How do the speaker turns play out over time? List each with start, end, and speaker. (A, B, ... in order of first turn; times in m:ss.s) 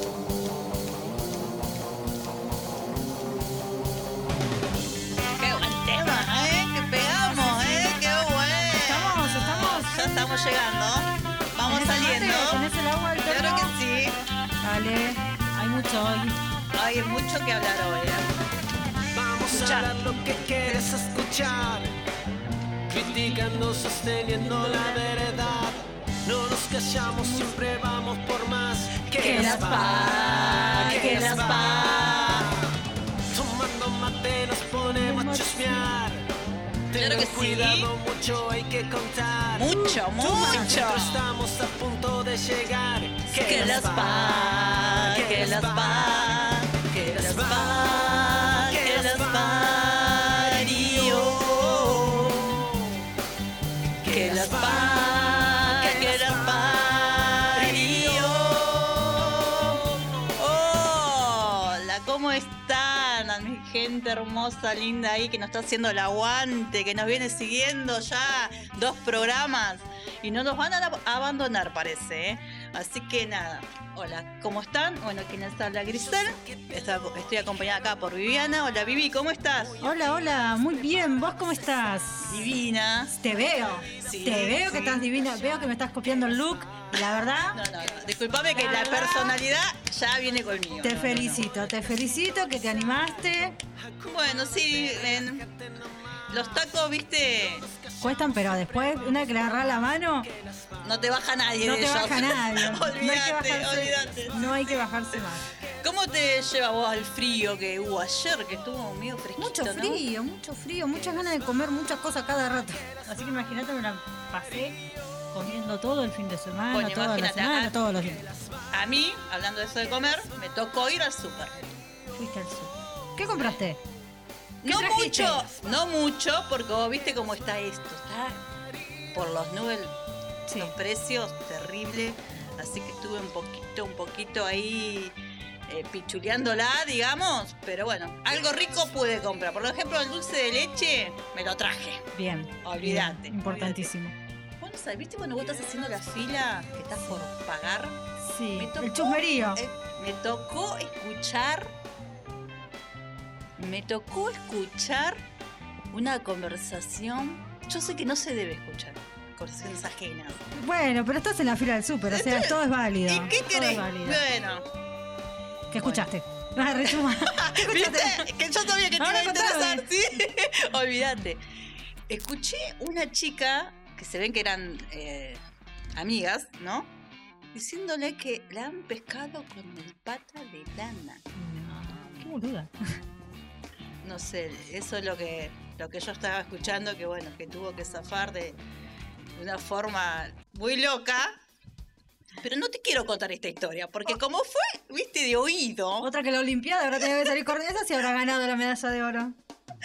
0:05.4-0:12.7 A
0:07.1-0:08.0 B
0:08.8-0:10.0 B
0:11.7-0:13.7 B
0:13.2-0:14.2 A
0:14.6-0:16.4 B
0:16.7-0:18.3 A
0:19.1-0:22.0 C
0:19.5-0:20.0 A
0:22.9-0:32.7 C
0:27.2-0:27.6 B
0:29.2-0:32.5 A
0:29.2-0:30.1 B
0:33.3-0:36.3 C
0:34.8-0:35.9 B
0:36.9-0:39.8 C
0:37.0-0:37.9 A
0:39.6-0:41.2 A
0:40.1-0:40.8 B
0:40.4-0:53.0 C
0:43.3-0:52.6 A
0:54.0-0:59.9 C
0:54.1-0:59.8 A
1:00.4-1:19.8 A
1:15.9-1:17.9 C
1:19.6-1:22.4 C
1:19.8-1:22.4 B
1:22.3-1:23.1 A
1:23.2-1:27.6 B
1:23.3-1:29.3 C
1:24.0-1:25.0 A
1:27.5-1:31.4 A
1:28.6-1:29.3 B
1:30.8-1:33.6 B
1:31.1-1:41.0 C
1:34.1-1:35.4 A
1:36.3-1:37.7 A
1:38.0-1:40.3 B
1:40.8-1:44.5 A
1:41.6-1:45.5 B
1:44.0-1:44.8 C
1:45.6-1:45.8 C
1:45.8-1:50.0 A
1:49.4-1:54.8 B
1:50.9-1:51.5 C
1:52.6-1:53.3 C
1:54.4-1:55.0 C
1:55.3-1:58.2 B
1:56.7-1:57.8 A
1:58.0-1:58.7 C
1:58.7-2:01.6 A
2:02.2-2:03.8 B
2:04.6-2:05.5 B
2:04.6-2:08.4 A
2:09.1-2:10.0 A
2:10.5-2:10.7 B
2:10.6-2:15.2 A
2:15.7-2:22.1 A
2:22.1-2:24.2 B
2:22.6-2:23.9 A
2:24.6-2:28.0 A
2:28.2-2:29.6 B
2:28.6-2:31.7 A
2:33.6-2:35.2 A
2:35.9-2:40.4 A
2:40.6-2:44.2 B
2:42.1-2:44.6 A
2:45.7-2:48.3 B
2:45.8-2:46.1 A
2:46.9-2:51.4 A
2:49.0-2:49.9 B
2:52.1-2:55.4 A
2:56.0-2:56.9 A
2:57.5-3:01.2 A
3:01.4-3:03.0 B
3:04.0-3:08.6 A
3:09.4-3:11.4 A
3:12.4-3:16.1 A
3:16.0-3:19.4 B